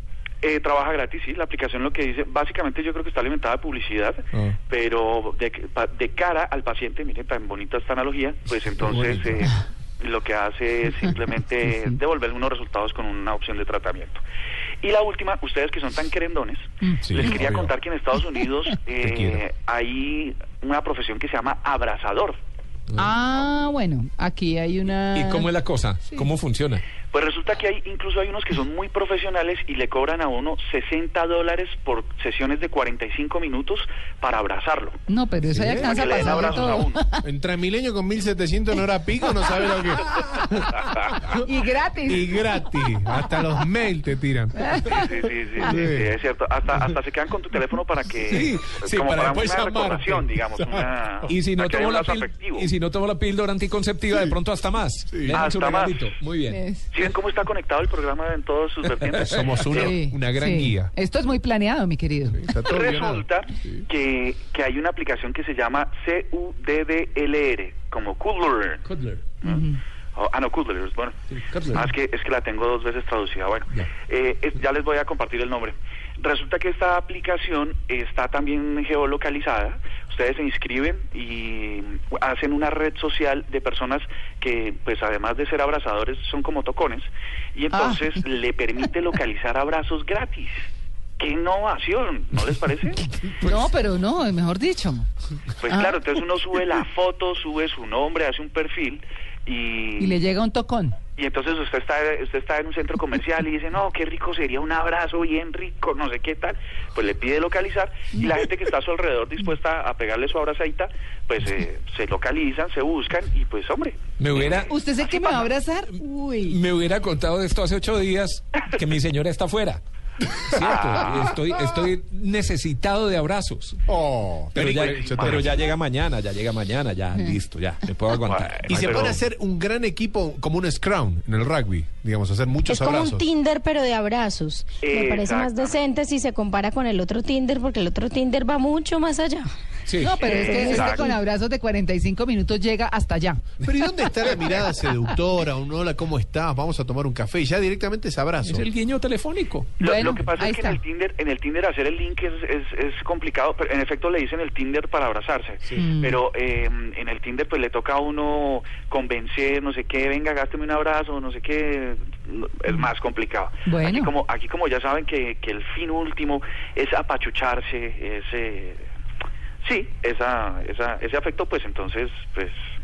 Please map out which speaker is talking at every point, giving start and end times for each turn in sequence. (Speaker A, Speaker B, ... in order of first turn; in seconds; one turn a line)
Speaker A: 0.4-14.2
Speaker B: 8.9-9.3
Speaker C: 11.7-12.0
Speaker A: 14.8-22.4
Speaker C: 16.8-17.3
Speaker B: 17.0-17.7
Speaker B: 19.0-19.4
Speaker C: 22.9-25.5
Speaker D: 25.1-26.8
Speaker A: 27.1-35.0
Speaker C: 35.1-37.2
Speaker B: 35.5-41.4
Speaker A: 35.7-37.0
Speaker C: 41.4-42.9
Speaker B: 42.1-44.6
Speaker C: 44.5-45.7
Speaker A: 44.9-52.7
Speaker B: 45.6-46.1
Speaker D: 48.2-49.9
Speaker B: 49.6-50.9
Speaker D: 51.3-56.6
Speaker B: 54.1-54.4
Speaker B: 55.1-55.4
Speaker A: 55.3-56.0
Speaker C: 56.5-56.9
Speaker A: 56.9-60.0
Speaker B: 59.2-60.9
Speaker C: 59.8-62.6
Speaker B: 62.4-63.8
Speaker A: 62.7-68.8
Speaker D: 68.8-69.4
Speaker C: 69.4-69.8
Speaker A: 69.4-71.2
Speaker D: 71.3-71.9
Speaker A: 71.7-90.6
Speaker C: 87.7-88.2
Speaker A: 91.2-93.0
Speaker C: 93.4-95.1
Speaker A: 95.6-100.2
Speaker C: 95.6-96.7
Speaker C: 100.0-101.0
Speaker A: 101.2-115.5
Speaker C: 108.1-108.4
Speaker D: 114.2-114.8
Speaker C: 114.6-116.6
Speaker D: 116.5-119.8
Speaker D: 120.4-123.8
Speaker A: 120.6-121.3
Speaker B: 123.9-125.6
Speaker D: 124.5-129.2
Speaker A: 124.7-125.5
Speaker A: 128.2-129.2
Speaker B: 128.7-133.3
Speaker E: 132.7-139.5
Speaker A: 134.8-135.8
Speaker D: 139.9-140.3
Speaker C: 140.0-143.4
Speaker A: 140.2-141.2
Speaker E: 140.5-141.0
Speaker B: 143.6-148.7
Speaker D: 148.4-149.8
Speaker C: 149.8-150.8
Speaker A: 149.8-168.8
Speaker C: 155.8-156.2
Speaker C: 163.7-164.1
Speaker A: 169.6-172.6